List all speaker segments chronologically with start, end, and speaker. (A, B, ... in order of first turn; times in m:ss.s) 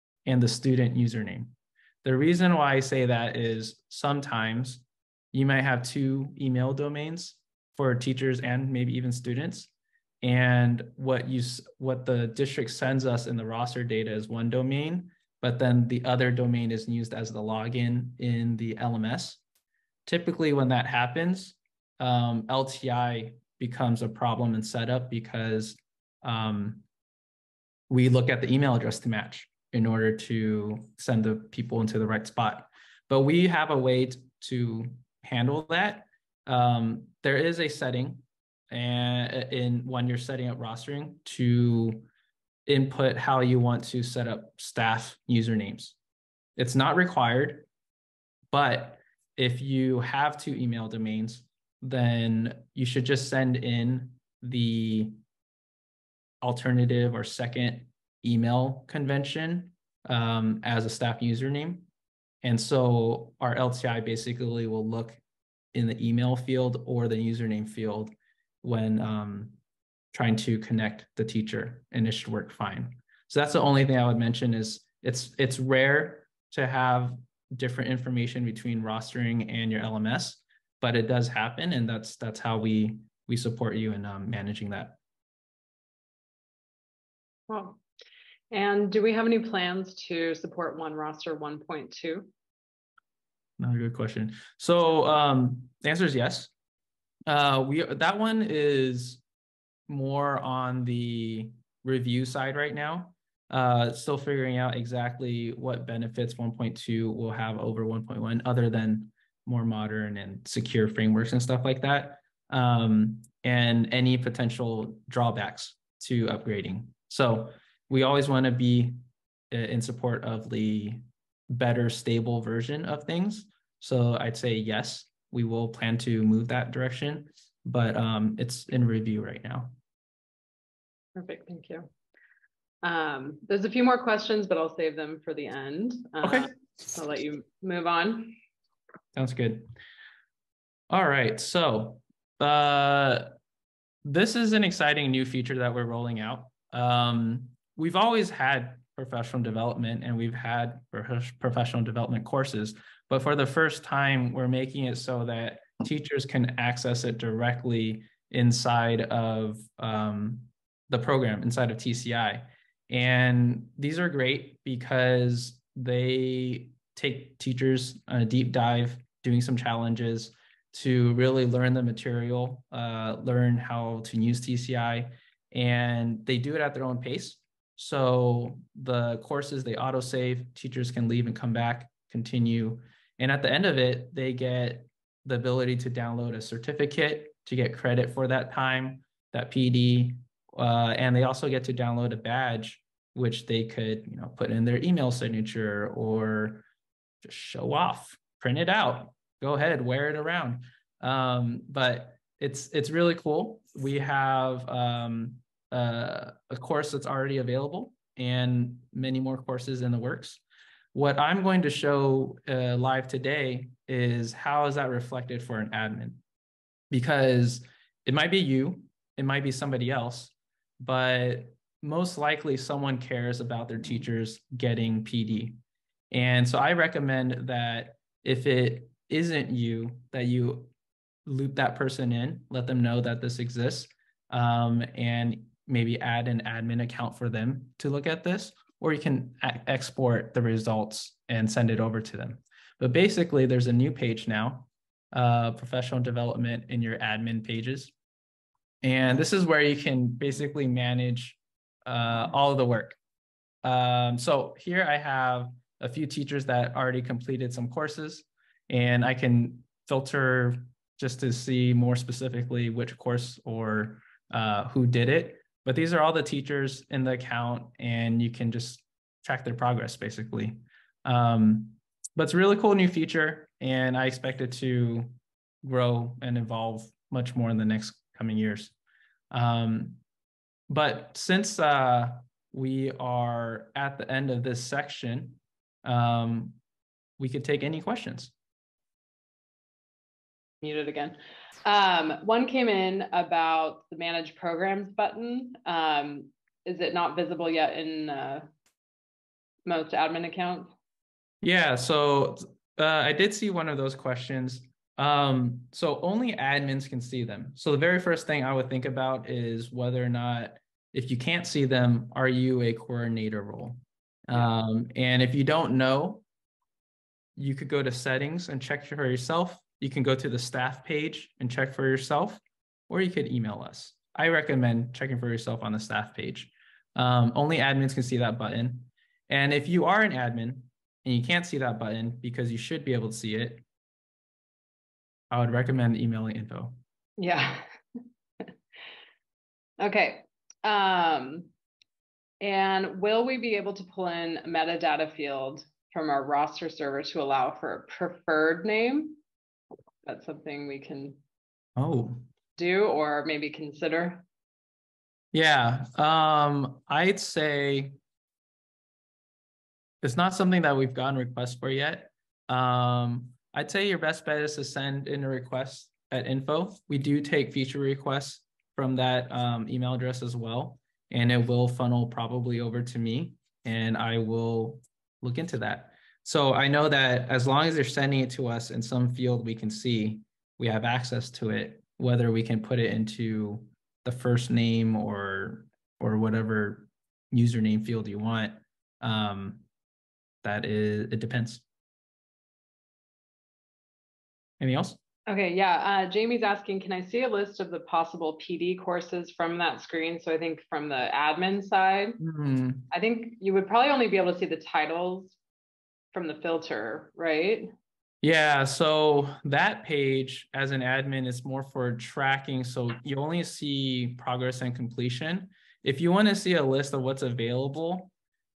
0:00.3-0:09.7 A
0:10.2-0:19.4 A
0:20.1-0:26.8 A
0:27.9-0:42.1 A
0:42.7-0:46.0 A
0:46.6-0:47.7 A
0:48.5-0:55.2 A
0:56.4-1:01.9 A
1:02.4-1:05.2 A
1:05.7-1:09.6 A
1:10.1-1:25.0 A
1:27.5-1:27.8 B
1:28.5-1:32.3 B
1:33.6-1:36.5 A
1:37.3-1:39.2 A
1:39.9-1:59.0 A
1:59.5-2:09.7 A
2:11.2-2:11.9 B
2:12.8-2:18.4 B
2:16.2-2:16.5 A
2:19.1-2:19.7 A
2:20.9-2:23.3 A
2:24.0-3:16.7 A
3:17.2-3:30.4 A
3:30.9-3:36.2 A
3:36.9-3:45.6 A
3:46.1-3:50.7 A
3:51.3-4:07.9 A
4:08.8-4:13.0 A
4:13.6-4:38.7 A
4:39.3-4:40.0 A
4:40.7-4:46.6 A
4:47.2-4:48.3 A
4:50.6-4:58.5 B
4:59.7-5:00.7 B
5:01.4-5:16.2 A
5:17.4-5:33.6 A
5:35.3-5:36.8 A
5:37.2-5:37.7 B
5:39.8-5:41.5 B
5:42.4-5:49.2 B
5:50.1-5:51.2 B
5:51.8-5:52.2 A
5:52.6-5:54.3 B
5:55.3-5:58.0 A
6:00.0-6:29.6 A
6:30.4-6:31.6 A
6:34.6-6:35.0 A
6:35.3-6:42.2 B
6:42.2-6:42.9 A
6:42.9-6:45.4 B
6:46.1-6:47.7 B
6:48.2-6:58.1 A